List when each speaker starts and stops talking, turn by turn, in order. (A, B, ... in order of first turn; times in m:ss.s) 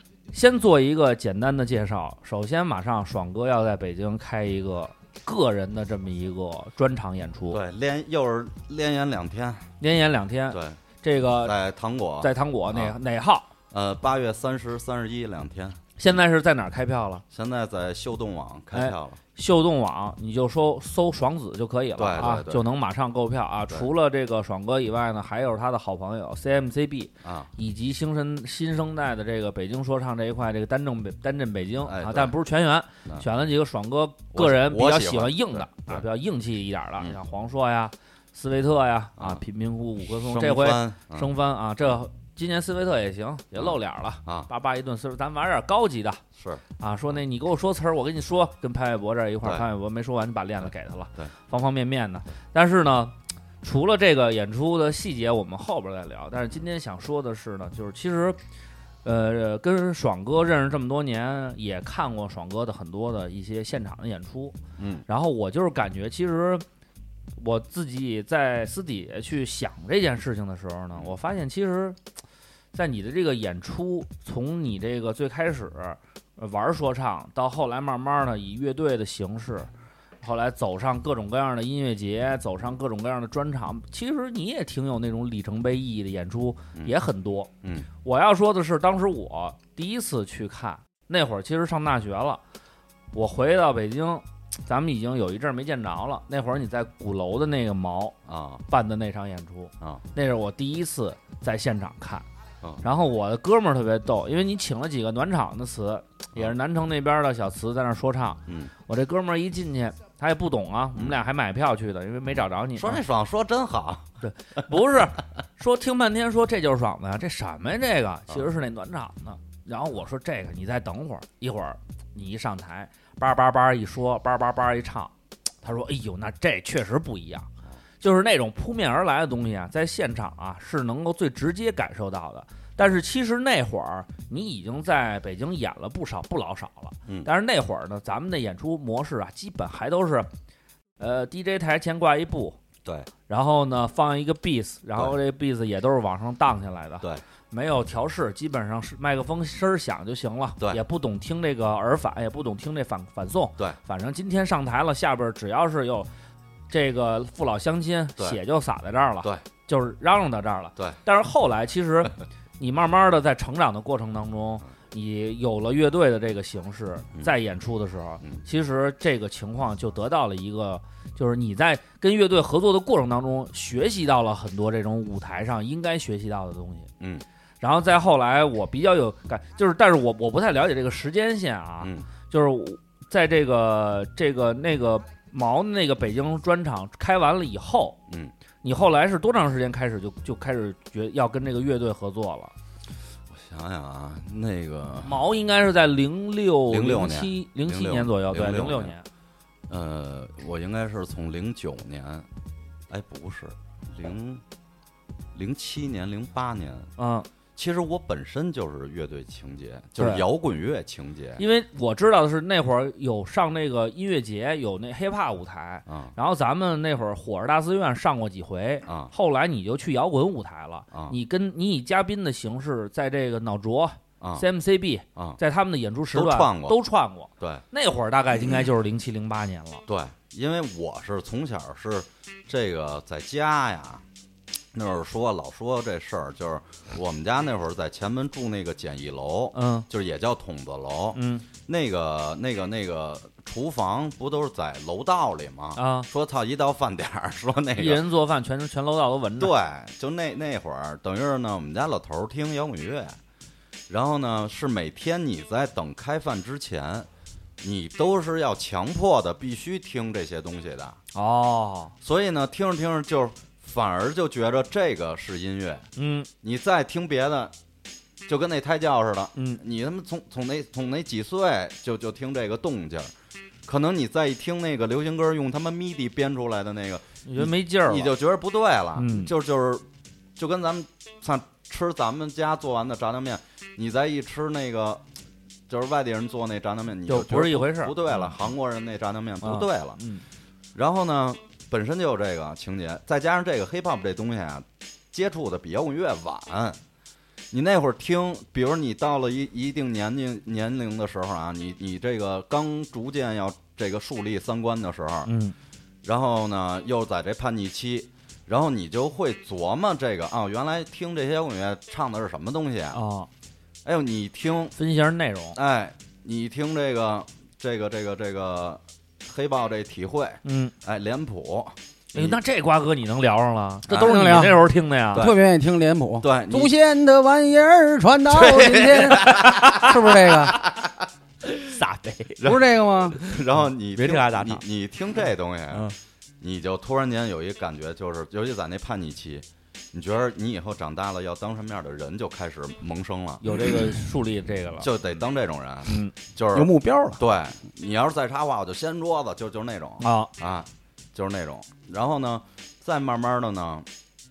0:00.3-0:07.6 A
0:07.5-0:09.7 B
0:09.8-0:11.5 A
0:10.5-0:10.8 B
0:11.4-0:13.0 B
0:12.2-0:13.5 A
0:13.7-0:15.9 B
0:16.0-0:17.2 A
0:17.3-0:19.2 B
0:18.7-0:46.2 A
0:22.0-0:22.7 B
0:27.2-0:27.5 B
0:31.8-0:32.3 B
0:34.3-0:36.0 B
0:40.2-0:41.3 B
0:43.6-0:44.5 B
0:46.4-0:46.6 B
0:46.8-0:58.4 A
0:59.0-1:06.6 A
1:04.8-1:05.0 B
1:07.4-1:12.0 A
1:12.7-1:19.7 A
1:20.2-1:27.5 A
1:28.0-1:32.4 A
1:33.1-1:38.1 A
1:38.2-1:38.6 B
1:38.7-1:42.3 A
1:42.8-1:53.0 A
1:48.5-1:48.7 B
1:52.8-1:54.1 B
1:54.2-2:05.1 A
2:05.6-2:07.5 A
2:08.0-2:20.3 A
2:21.0-2:22.6 A
2:23.3-2:36.1 A
2:36.7-2:56.9 A
2:57.6-3:08.0 A
3:08.6-3:12.5 A
3:13.3-3:15.2 B
3:15.0-3:19.0 A
3:16.7-3:18.9 B
3:19.7-3:22.2 B
3:22.9-3:24.4 B
3:25.3-3:26.9 B
3:27.0-3:27.3 A
3:27.6-3:31.4 B
3:30.0-3:30.2 A
3:31.4-3:49.8 A
3:35.9-3:36.1 B
3:38.8-3:39.1 B
3:44.2-3:44.4 B
3:46.1-3:46.8 B
3:49.9-3:54.0 B
3:54.7-4:08.0 B
3:59.5-3:59.8 A
4:01.1-4:01.4 A
4:05.8-4:06.1 A
4:07.8-4:09.5 A
4:09.4-4:13.2 B
4:13.9-4:17.1 B
4:17.6-4:21.0 B
4:21.1-4:21.9 A
4:22.0-4:25.9 B
4:26.0-4:26.3 A
4:26.4-4:27.5 B
4:28.3-4:33.1 B
4:33.7-4:39.8 B
4:37.2-4:38.1 A
4:39.0-4:39.3 A
4:40.4-4:45.0 B
4:45.7-4:50.0 B
4:47.1-4:48.4 A
4:49.4-4:50.2 A
4:50.7-4:56.8 B
4:57.5-5:05.3 B
5:05.2-5:05.5 A
5:06.0-5:13.0 B
5:12.9-5:13.3 A
5:13.8-5:14.8 B
5:14.8-5:15.6 A
5:15.5-5:22.4 B
5:20.4-5:20.7 A
5:22.1-5:25.3 A
5:23.9-5:24.2 B
5:23.9-5:24.6 C
5:25.1-5:30.6 C
5:26.2-5:26.7 B
5:28.3-5:31.0 B
5:29.1-5:29.9 A
5:31.4-5:32.4 A
5:32.4-5:35.9 B
5:32.4-5:33.2 C
5:33.1-5:33.4 A
5:33.9-5:34.6 A
5:36.4-5:43.8 B
5:43.4-5:44.9 A
5:44.8-5:53.9 B
5:45.9-5:46.1 A
5:46.5-5:47.2 C
5:50.0-5:50.3 A